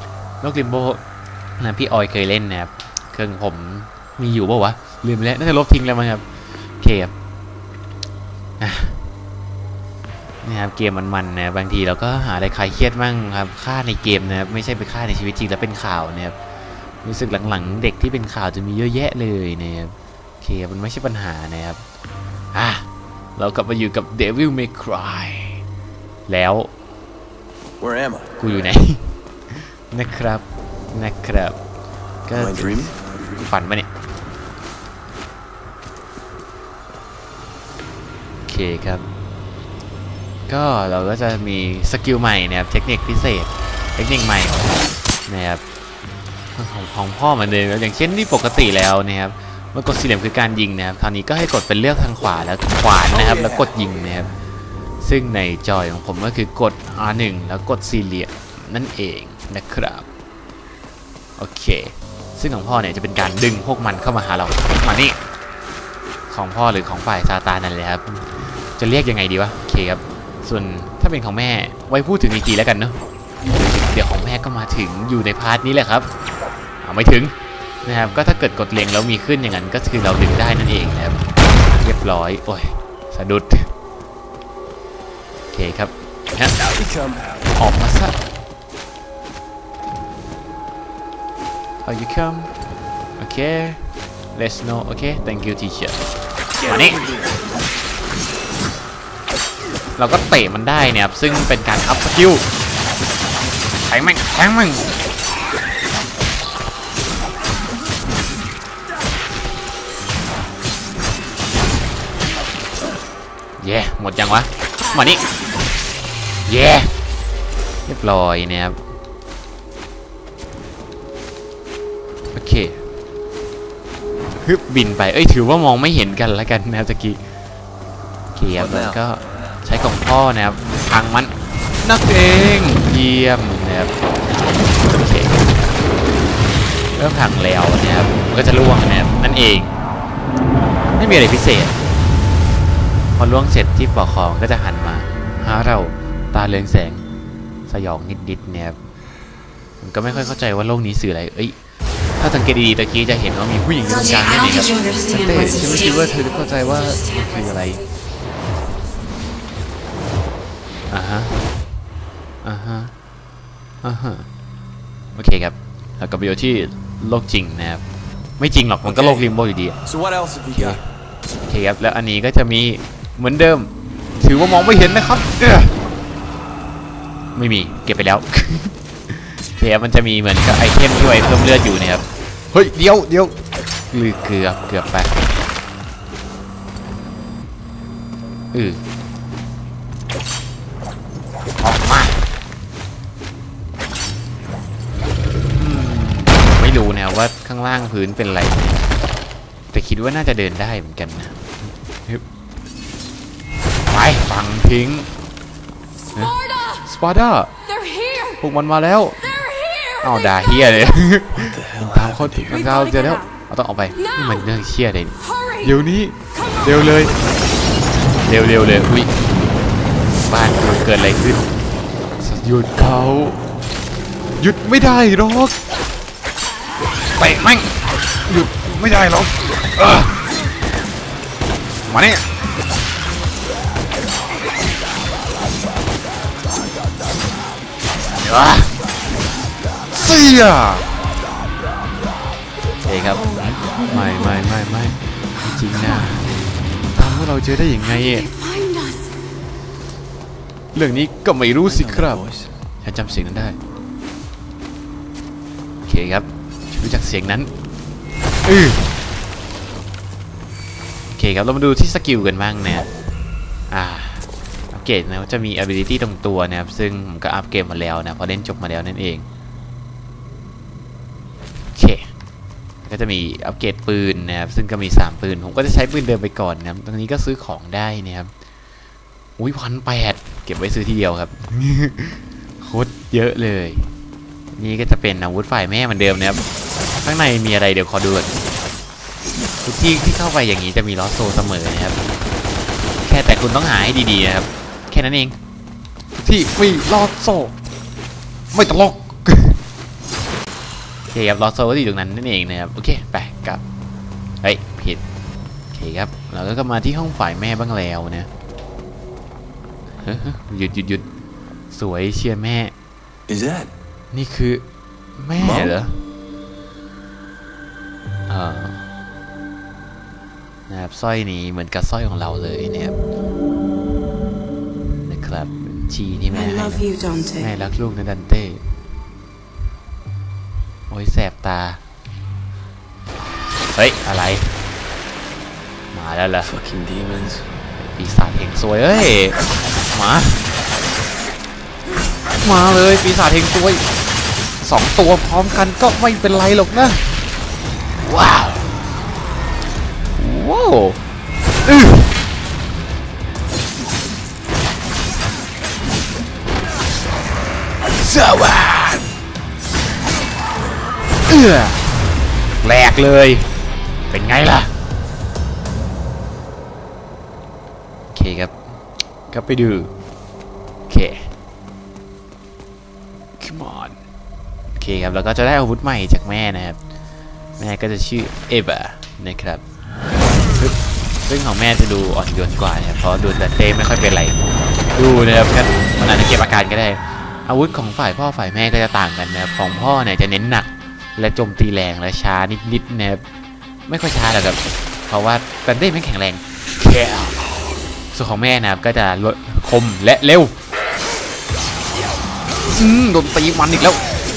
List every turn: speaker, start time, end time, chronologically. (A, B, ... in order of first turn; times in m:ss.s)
0:00.4-0:01.0 A
0:01.6-0:06.2 A
0:06.8-0:07.1 A
0:08.6-0:09.0 A
0:10.4-0:16.4 A
0:17.0-0:21.8 A
0:22.5-0:22.8 A
0:23.4-0:25.6 A
0:26.3-0:26.7 A
0:27.8-0:28.4 B
0:28.4-0:31.6 A
0:32.3-0:33.9 A
0:32.3-0:33.5 B
0:38.5-0:39.1 A
0:40.5-0:44.7 A
0:45.3-0:45.6 A
0:46.6-0:54.3 A
0:53.1-0:53.7 B
0:55.0-1:00.1 A
1:01.4-1:05.2 A
1:06.3-1:13.0 A
1:13.6-1:16.1 A
1:16.8-1:17.3 A
1:17.8-1:21.2 A
1:21.8-1:23.7 A
1:25.5-1:26.6 A
1:26.6-1:27.5 B
1:27.6-1:28.2 A
1:31.8-1:32.5 A
1:33.2-1:33.8 A
1:34.3-1:36.0 A
1:36.6-1:37.4 B
1:36.6-1:37.0 A
1:40.0-1:42.4 A
1:43.9-1:44.9 A
1:53.6-1:55.3 A
1:56.5-1:56.9 A
1:57.9-1:58.8 A
2:02.4-2:02.8 A
2:04.4-2:07.2 A
2:08.4-2:13.9 A
2:08.5-2:09.0 B
2:14.7-2:15.5 A
2:17.0-2:19.7 A
2:20.9-2:21.7 A
2:23.2-2:27.0 A
2:27.7-2:28.8 A
2:29.8-2:31.6 A
2:32.2-2:37.8 A
2:40.9-2:41.4 A
2:42.4-2:42.9 A
2:43.8-2:44.3 A
2:45.2-2:47.8 A
2:48.4-2:49.8 A
2:48.8-2:49.3 B
2:49.8-2:50.8 B
2:50.5-2:50.8 A
2:51.5-2:53.7 A
2:54.2-2:55.8 A
2:57.4-3:03.4 A
3:03.9-3:05.2 A
3:08.5-3:08.8 A
3:11.6-3:12.2 A
3:15.6-3:18.8 A
3:19.7-3:22.2 A
3:23.9-3:25.1 A
3:26.2-3:27.5 A
3:28.3-3:29.5 A
3:30.0-3:37.2 A
3:31.3-3:32.7 B
3:38.2-3:39.1 A
3:40.3-3:41.5 A
3:42.2-3:43.4 A
3:44.4-3:45.6 A
3:47.2-3:50.2 A
3:51.9-3:52.2 A
3:58.2-3:58.7 A
3:59.9-4:00.9 A
4:02.8-4:06.3 A
4:03.2-4:04.4 C
4:06.9-4:08.3 A
4:08.5-4:09.0 C
4:10.7-4:12.2 A
4:11.6-4:12.5 B
4:12.8-4:13.6 A
4:15.9-4:17.5 A
4:18.4-4:18.8 A
4:21.1-4:22.9 A
4:23.7-4:29.2 A
4:31.8-4:32.1 A
4:32.8-4:38.3 A
4:39.4-4:43.9 A
4:44.5-4:46.4 A
4:47.0-4:48.4 A
4:49.6-4:52.0 A
4:53.0-4:55.4 A
4:56.2-4:57.5 A
4:58.5-4:59.6 A
5:01.1-5:03.6 A
5:04.4-5:05.0 A
5:05.7-5:08.3 A
5:10.0-5:11.0 A
5:11.7-5:12.7 A
5:13.3-5:13.7 B
5:14.1-5:14.6 A
5:15.2-5:16.0 A
5:15.4-5:15.8 B
5:18.3-5:18.8 A
5:20.7-5:23.0 A
5:25.0-5:26.9 A
5:26.3-5:27.5 C
5:27.4-5:28.6 A
5:30.9-5:31.8 A
5:33.7-5:34.5 A
5:35.9-5:36.5 A
5:36.4-5:37.5 B
5:37.8-5:39.4 A
5:39.9-5:40.4 A
5:42.4-5:43.9 A
5:44.6-5:47.0 A
5:48.0-5:48.7 A
5:50.2-5:51.0 A
5:51.7-5:52.1 A
5:58.0-5:59.1 A
6:01.3-6:01.8 A
6:02.6-6:03.5 A
6:04.1-6:04.7 A
6:08.1-6:08.6 A
6:09.3-6:09.9 A
6:10.9-6:11.3 A
6:13.4-6:14.0 A
6:14.8-6:16.8 A
6:17.6-6:19.6 A
6:20.6-6:24.4 A
6:24.9-6:33.2 A
6:33.9-6:37.4 A
6:38.1-6:40.6 A
6:42.7-6:44.1 A